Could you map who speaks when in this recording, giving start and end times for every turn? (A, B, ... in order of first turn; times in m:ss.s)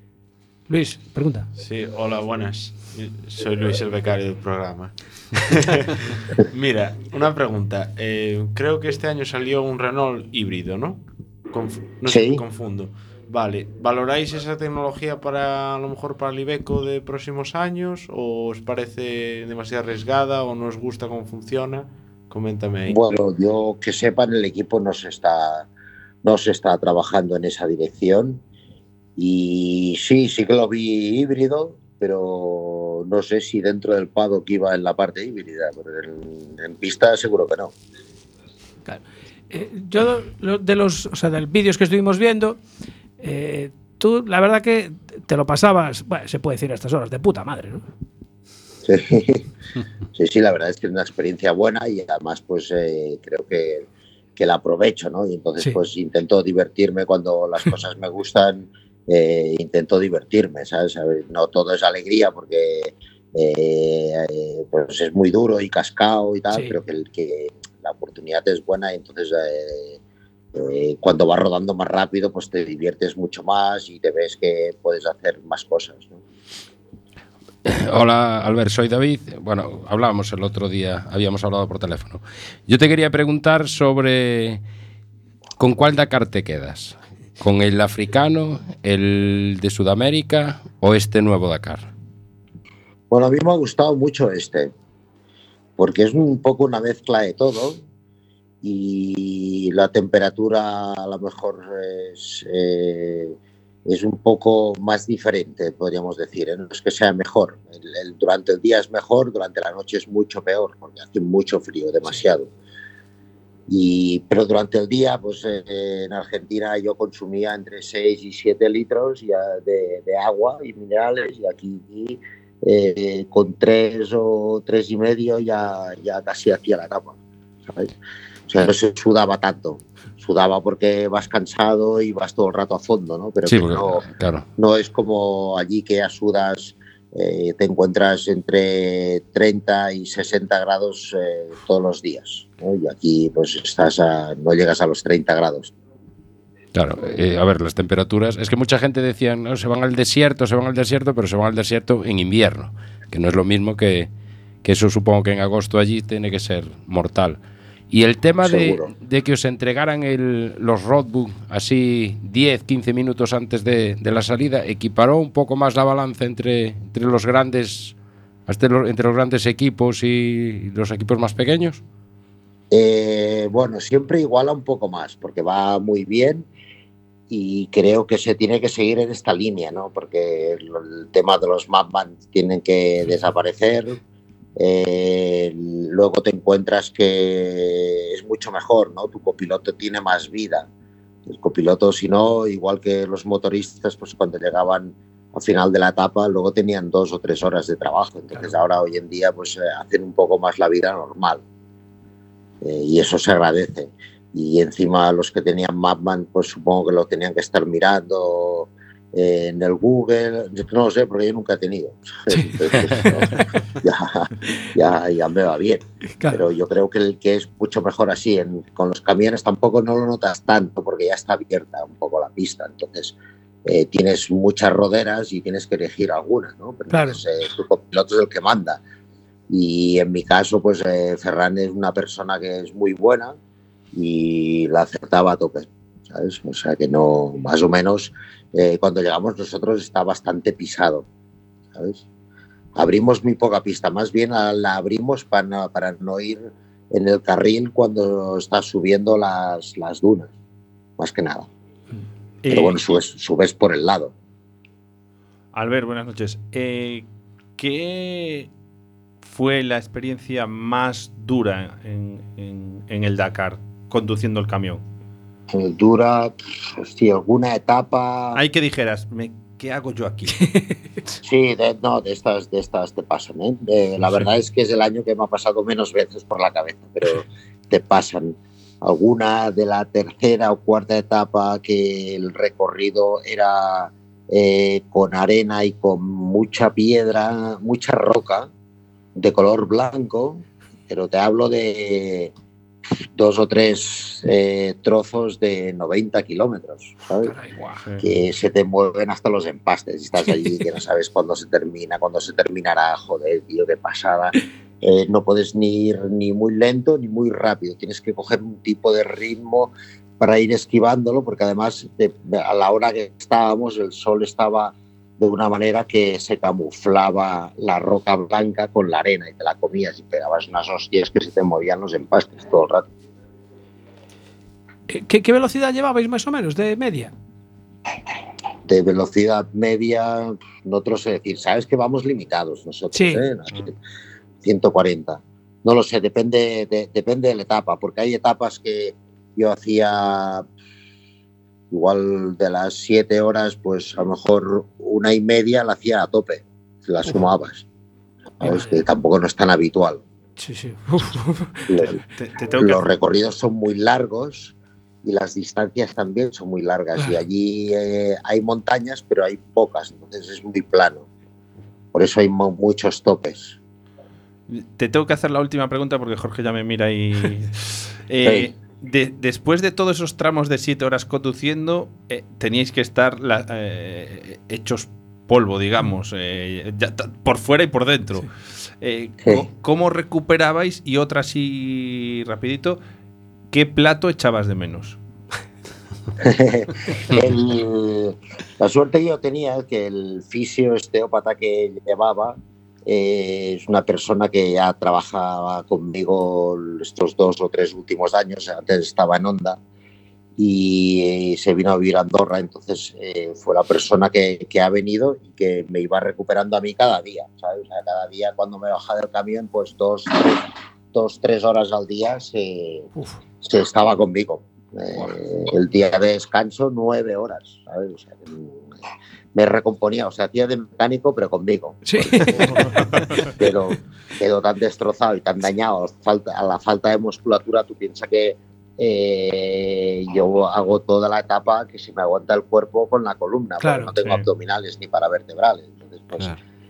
0:00.7-0:01.5 A
0:01.6-0:23.0 B
0:12.1-0:12.4 C
0:22.9-0:25.7 C
0:26.2-0:28.4 C
0:29.2-0:37.7 C
0:38.8-0:42.6 A
0:43.2-0:47.8 A
0:48.8-0:49.4 C
0:50.1-1:10.0 C
1:10.5-1:16.2 C
1:17.6-1:24.6 D
1:25.6-1:31.9 D
1:33.1-1:34.7 C
1:35.8-1:37.8 C
1:38.6-1:52.5 C
1:53.7-2:07.2 C
2:07.7-2:07.9 C
2:08.5-2:25.7 C
2:13.5-2:14.4 D
2:26.7-2:34.1 D
2:34.6-2:37.4 D
2:37.9-2:47.9 D
2:38.4-2:38.9 C
2:48.5-2:51.8 D
2:52.7-2:56.5 C
2:57.3-3:04.0 C
3:04.6-3:10.7 C
3:11.2-3:21.4 C
3:22.6-3:48.8 C
3:46.9-3:47.2 A
3:49.5-3:53.3 C
3:53.9-4:01.0 C
4:01.7-4:02.0 C
4:02.8-4:10.3 C
4:11.0-4:11.5 C
4:12.4-4:12.8 E
4:12.5-4:14.1 C
4:15.5-4:17.0 E
4:17.6-4:18.5 E
4:19.2-4:24.8 E
4:25.5-4:28.4 C
4:28.3-4:30.5 E
4:31.2-4:48.5 C
4:49.1-4:52.3 C
4:53.2-4:57.3 C
4:57.2-4:57.6 A
4:58.0-5:22.8 C
5:24.9-5:27.1 A
5:28.6-5:33.7 C
5:32.9-5:33.3 A
5:34.4-5:40.5 C
5:41.7-5:47.6 C
5:48.4-5:50.0 C
5:48.4-5:48.8 A
5:50.4-5:51.7 A
5:51.7-5:52.0 C
5:51.8-5:52.8 E
5:52.6-5:54.5 C
5:55.0-6:01.1 C
6:01.9-6:03.6 C
6:04.5-6:18.3 E
6:08.2-6:08.5 C
6:18.8-6:22.8 E
6:23.5-6:25.0 E
6:26.2-6:39.6 C
6:40.4-6:52.9 C
6:53.4-6:58.7 C
6:59.3-7:16.4 C
7:01.8-7:02.8 A
7:02.6-7:03.3 E
7:13.6-7:13.9 A